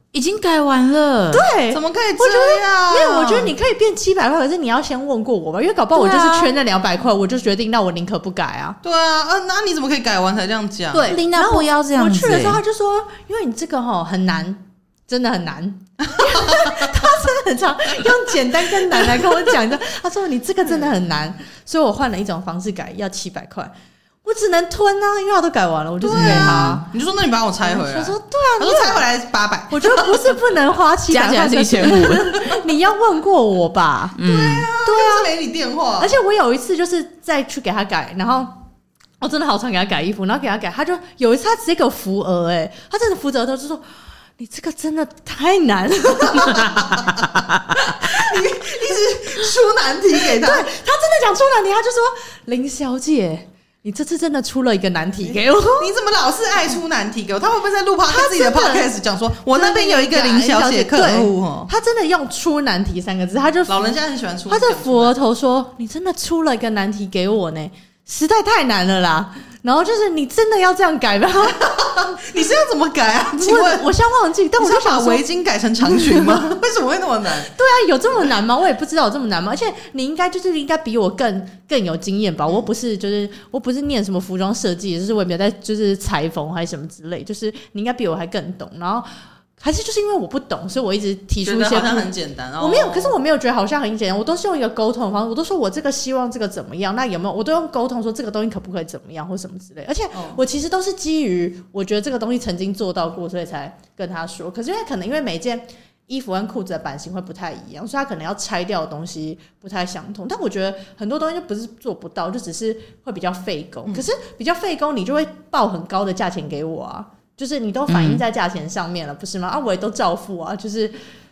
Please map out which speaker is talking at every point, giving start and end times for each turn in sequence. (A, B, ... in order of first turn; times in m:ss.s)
0:00.1-0:01.5 A
0:01.3-0:08.8 B
0:01.7-0:03.5 C
0:06.0-0:06.6 A
0:08.8-0:11.1 C
0:10.9-0:23.7 B
0:11.1-0:12.6 A
0:16.2-0:16.9 C
0:24.2-0:26.9 B
0:26.0-0:30.4 C
0:26.1-0:26.7 A
0:27.6-0:29.0 B
0:29.7-0:35.3 B
0:31.1-0:32.4 A
0:34.2-0:34.7 A
0:34.2-0:36.1 C
0:36.0-0:38.6 B
0:39.2-0:48.7 B
0:48.0-0:50.7 C
0:50.3-0:56.0 B
0:55.8-1:01.7 C
0:58.1-0:58.9 B
0:59.5-1:04.0 B
1:03.7-1:05.2 C
1:04.5-1:11.9 B
1:11.6-1:13.8 C
1:13.4-1:15.2 B
1:14.6-1:17.5 C
1:15.9-1:16.5 B
1:17.5-1:29.1 B
1:29.6-2:01.0 B
1:31.4-1:33.2 C
1:40.1-1:40.4 C
1:57.9-1:58.2 A